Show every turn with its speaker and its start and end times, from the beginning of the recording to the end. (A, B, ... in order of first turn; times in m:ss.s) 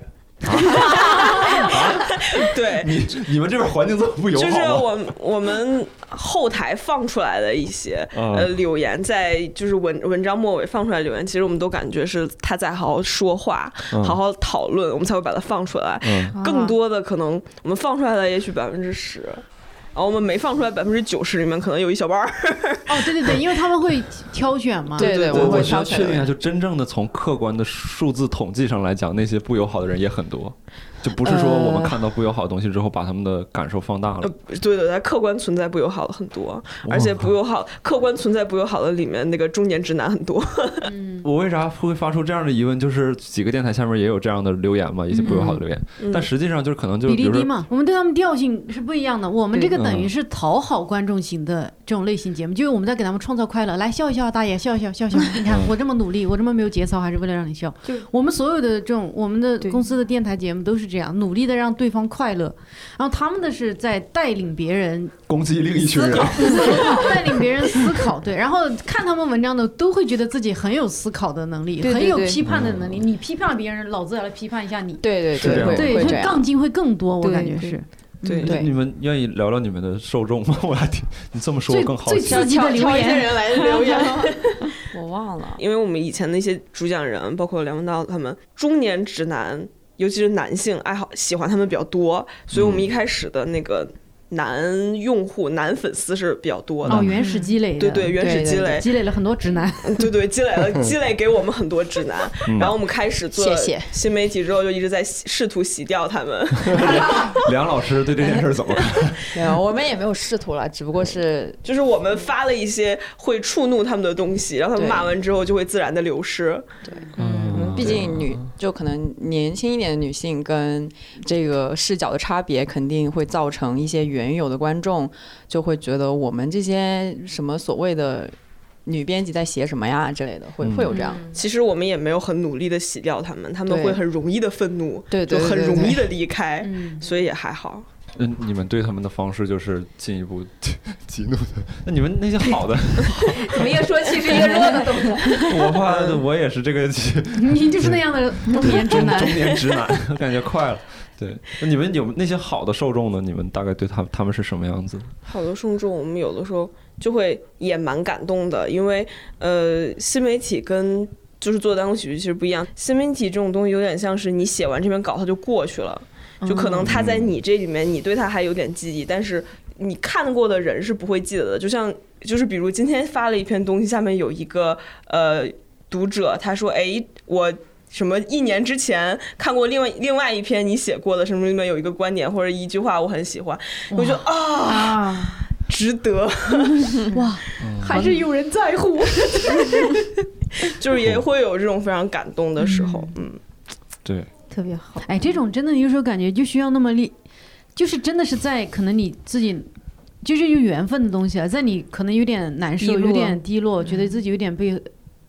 0:00.4-0:04.9 A
0:00.8-0:01.3 B
0:00.9-0:03.0 C
0:04.3-0:19.4 C
0:08.1-0:08.5 A
0:13.9-0:14.2 A
0:16.0-0:16.4 A
0:16.4-0:16.8 B
0:20.0-0:23.4 C
0:22.9-0:25.2 D
0:25.0-0:26.0 C
0:25.0-0:26.3 E
0:25.3-0:34.3 A
0:31.2-0:32.0 E
0:34.2-0:40.9 C
0:36.8-0:37.3 A
0:40.8-0:41.2 D
0:41.2-0:47.5 A
0:46.0-0:46.3 C
0:47.1-1:05.2 D
0:49.5-0:49.8 B
0:49.7-0:50.1 A
1:05.3-1:07.3 A
1:06.1-1:07.1 B
1:06.2-1:18.6 D
1:11.8-1:12.4 E
1:12.4-1:13.0 A
1:15.0-1:16.5 E
1:15.4-1:16.2 A
1:17.2-1:17.8 B
1:18.2-1:18.6 C
1:18.4-1:18.7 E
1:18.4-1:22.5 A
1:21.7-1:24.0 D
1:22.3-1:25.6 E
1:23.5-1:24.7 C
1:25.6-1:37.1 C
1:32.5-1:32.9 A
1:36.9-1:40.1 D
1:36.9-1:37.2 A
1:37.8-1:38.9 C
1:38.2-1:38.8 E
1:39.8-1:47.5 C
1:42.5-1:42.7 A
1:43.3-1:43.9 E
1:46.7-1:49.4 A
1:46.8-1:47.3 B
1:49.3-1:51.6 E
1:51.6-1:56.7 C
1:54.8-1:55.2 E
1:56.8-2:08.4 E
1:57.2-1:58.5 A
2:08.9-2:11.3 E
2:10.6-2:10.9 A
2:10.9-2:11.2 B
2:11.2-2:17.9 C
2:13.7-2:14.0 E
2:15.1-2:16.1 E
2:16.6-2:17.0 D
2:18.2-2:23.9 A
2:23.2-2:25.7 B
2:25.3-2:35.1 A
2:25.9-2:26.2 C
2:27.4-2:29.6 D
2:35.3-3:07.6 C
2:46.4-2:46.8 D
2:46.8-2:47.4 A
3:03.9-3:05.4 D
3:07.1-3:10.1 D
3:07.6-3:08.2 A
3:10.6-3:13.4 C
3:11.0-3:11.2 A
3:12.6-3:13.1 D
3:14.0-3:14.3 A
3:14.5-3:15.4 B
3:15.0-3:17.1 D
3:17.8-3:19.7 D
3:20.2-3:24.9 D
3:22.8-3:24.0 B